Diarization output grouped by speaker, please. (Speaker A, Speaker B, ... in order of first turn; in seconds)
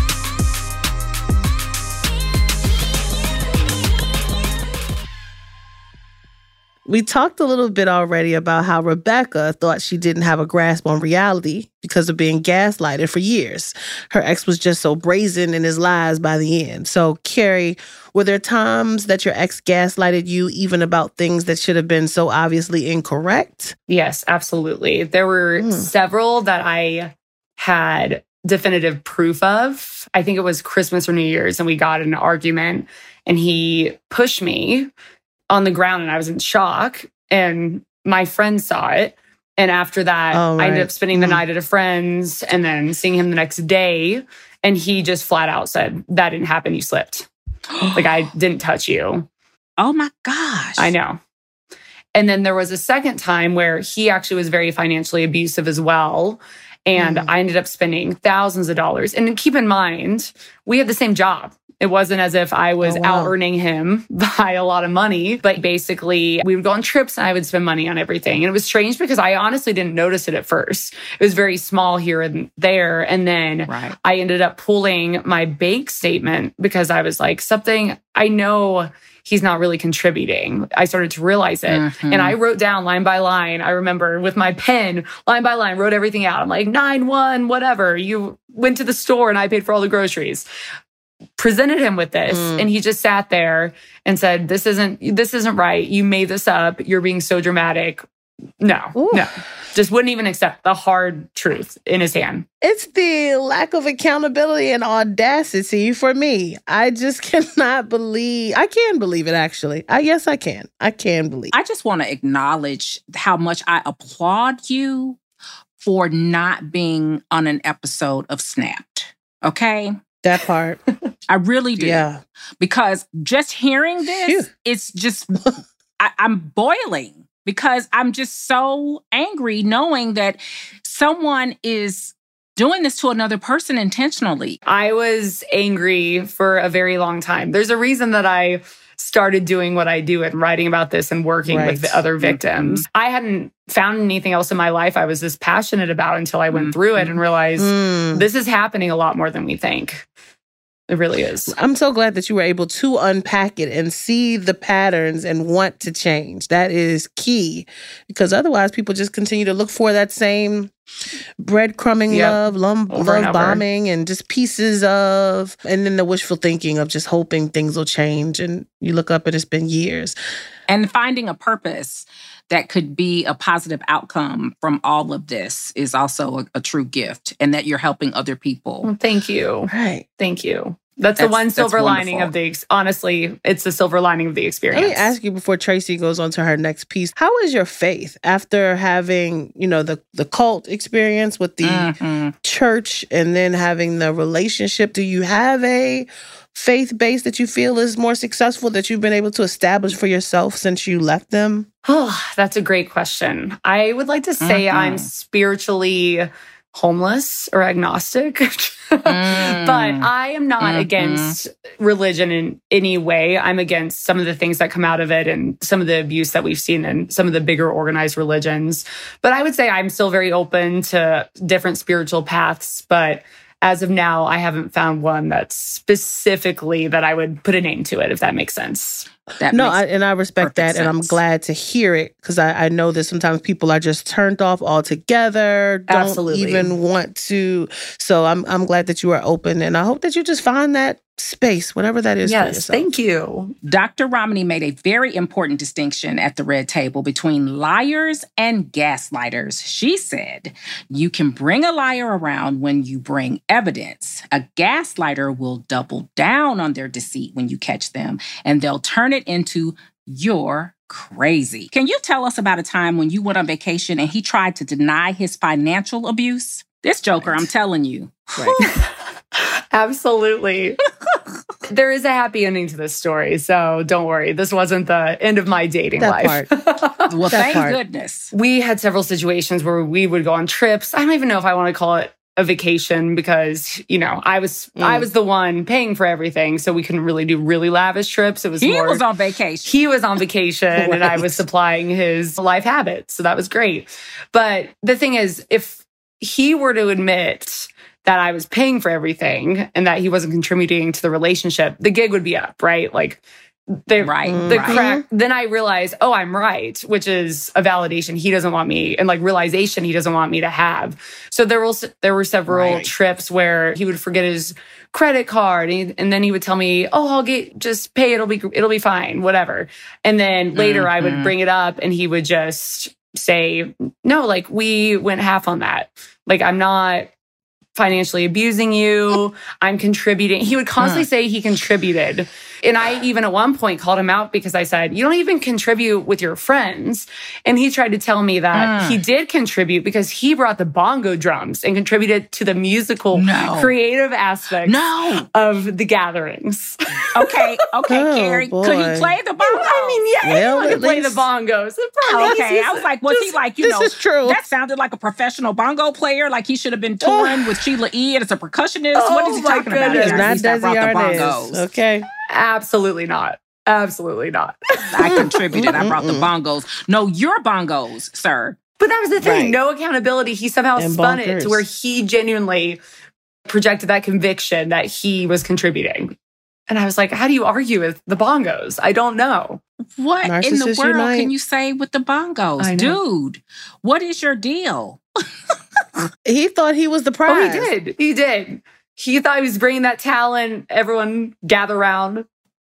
Speaker A: 6.9-23.8, 25.6-25.9, 40.3-41.4, 57.0-57.3, 62.8-63.4, 92.3-92.7, 99.0-99.3, 102.6-111.5, 120.2-120.8, 121.8-122.2, 124.0-124.5, 141.5-142.0, 147.6-148.2, 151.5-160.7, 161.4-170.2, 179.7-180.1, 184.7-191.9, 192.4-201.7, 229.5-242.9, 276.0-276.5, 277.3-277.8, 284.8-285.1, 290.7-291.4, 304.3-305.0, 312.5-312.9, 347.9-349.2, 350.2-351.3, 352.1-352.4, 353.6-354.4, 357.0-357.6, 359.7-362.1, 365.0-366.3, 369.2-369.6, 370.8-371.6, 380.2-381.3, 386.2-387.7
Speaker B: 23.9-34.9, 35.5-47.3, 47.9-49.3, 50.8-51.2, 52.1-90.5, 91.4-98.0, 98.6-102.5, 134.7-150.1, 150.9-151.6, 162.1-162.4, 162.9-163.6, 178.8-185.1, 201.9-229.1, 235.9-236.7, 242.2-243.6, 269.4-270.8, 271.7-277.6, 278.3-289.0, 289.6-303.2, 303.9-327.1, 327.8-347.4, 349.4-353.2, 358.9-360.4, 362.3-365.3, 368.8-372.8, 373.5-376.1, 376.7-379.6, 382.6-383.0, 387.3-392.2
Speaker C: 47.7-48.3, 49.8-50.9, 73.7-74.0, 81.7-82.4, 111.5-115.2, 115.8-120.0, 121.3-122.0, 122.6-125.4, 126.0-134.6, 142.2-142.8, 146.5-146.8, 170.7-178.9, 181.2-182.3, 191.6-192.3, 204.4-205.1, 209.1-210.1, 210.6-211.4, 229.4-229.8, 230.4-231.2, 243.6-268.8, 277.1-278.3, 288.6-289.7, 304.0-304.8, 320.6-321.3, 330.8-331.1, 338.5-339.0, 343.1-343.8, 344.6-345.3, 347.1-350.0, 352.2-361.6, 364.9-368.6, 380.0-385.0